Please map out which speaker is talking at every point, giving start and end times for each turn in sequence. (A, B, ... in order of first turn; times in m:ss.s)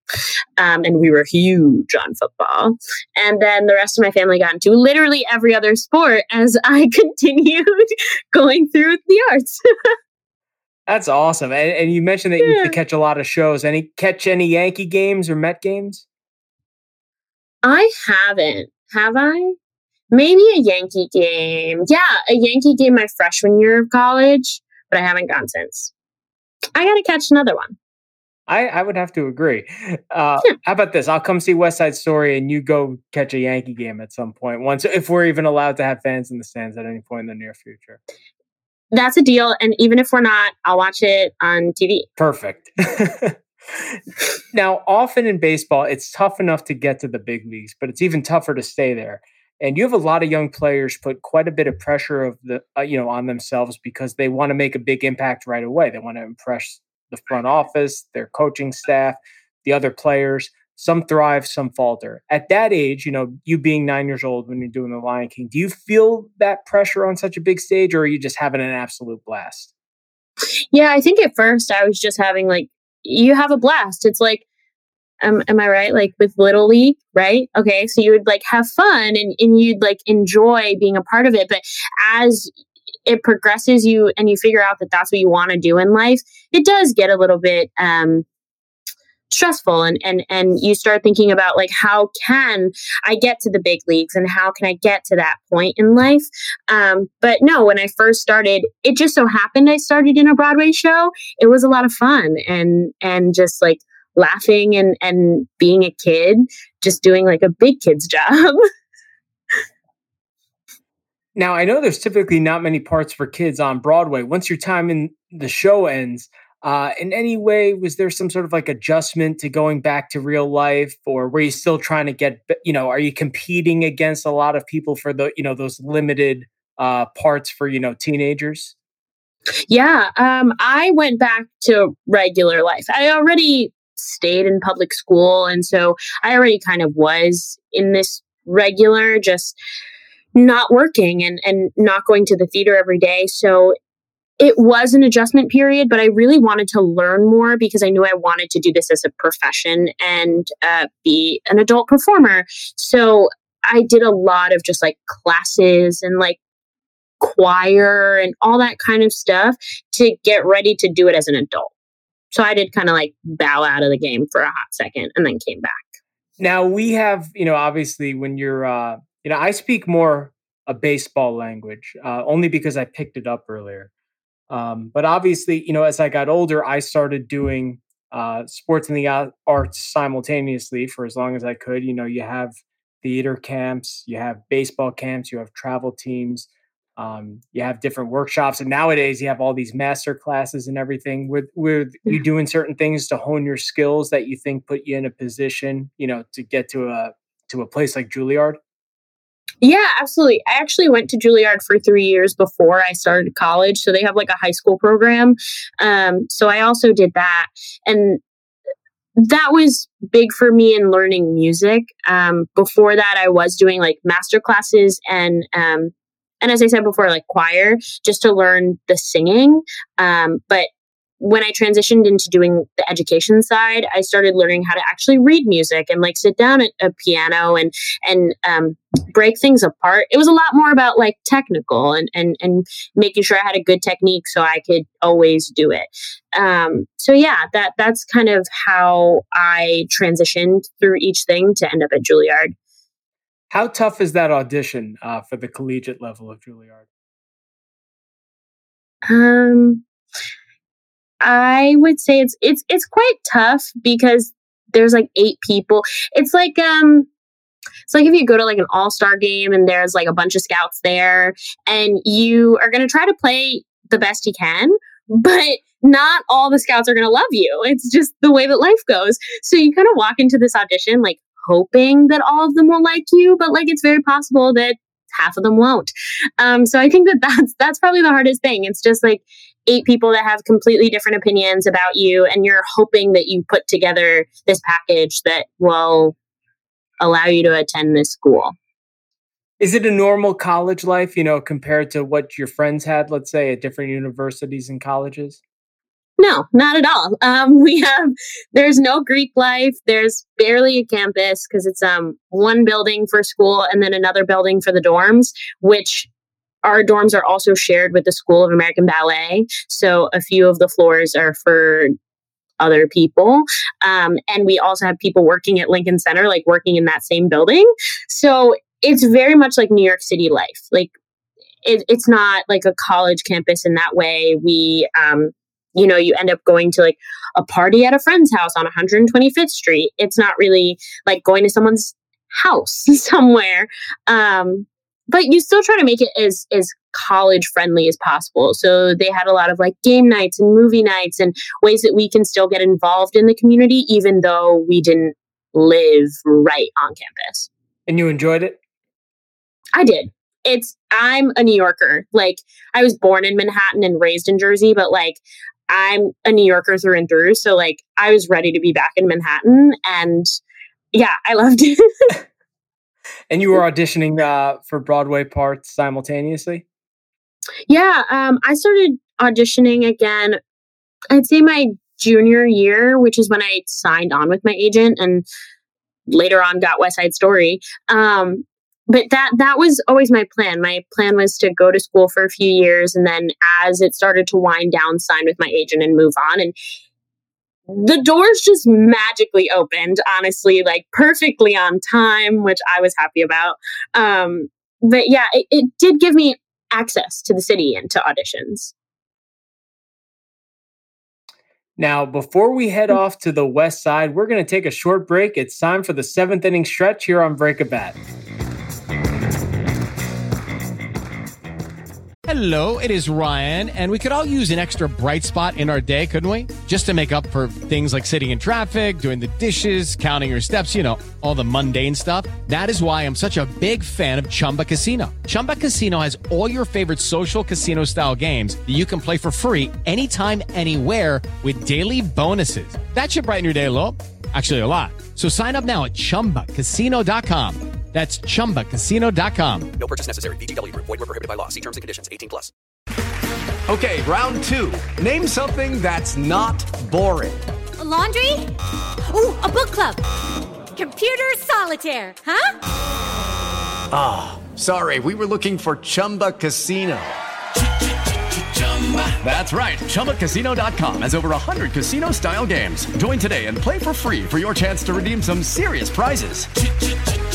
0:00.6-0:09.6 A
0:10.9-0:16.0 B
0:12.4-0:12.8 A
0:17.6-0:19.6 A
0:20.1-0:25.9 A
0:26.8-0:27.8 A
0:28.5-0:38.0 B
0:38.9-0:42.1 A
0:42.2-0:44.0 B
0:44.5-1:09.7 B
1:10.7-1:14.4 A
1:15.2-1:22.5 A
1:23.1-1:28.2 A
1:29.3-1:48.6 A
1:51.4-2:08.7 B
2:09.7-2:19.6 A
2:20.4-2:23.8 A
2:24.4-2:36.4 A
2:37.2-2:41.7 A
2:42.3-2:45.9 A
2:46.4-2:53.9 B
2:54.5-3:18.6 B
3:19.6-3:28.2 A
3:29.2-3:40.7 A
3:41.2-4:02.5 A
4:03.5-4:06.8 B
4:09.1-4:09.8 A
4:11.2-4:17.1 A
4:17.9-4:46.2 A
4:47.0-4:48.6 A
4:49.6-4:55.4 B
4:56.2-5:06.1 A
5:06.6-5:11.9 A
5:12.6-5:20.9 A
5:21.6-5:47.5 A
5:47.9-5:48.6 B
5:49.8-6:00.3 A
6:00.9-6:01.8 A
6:03.3-6:06.6 B
6:07.7-6:10.4 A
6:11.1-6:15.3 A
6:16.1-6:26.5 A
6:27.7-6:38.7 A
6:41.8-6:48.0 B
6:52.3-7:19.7 C
7:19.8-7:22.5 D
7:23.7-7:27.4 E
7:27.8-7:28.5 F
7:29.1-7:30.0 F
7:30.7-7:32.5 F
7:33.9-7:37.2 E
7:38.6-7:46.5 E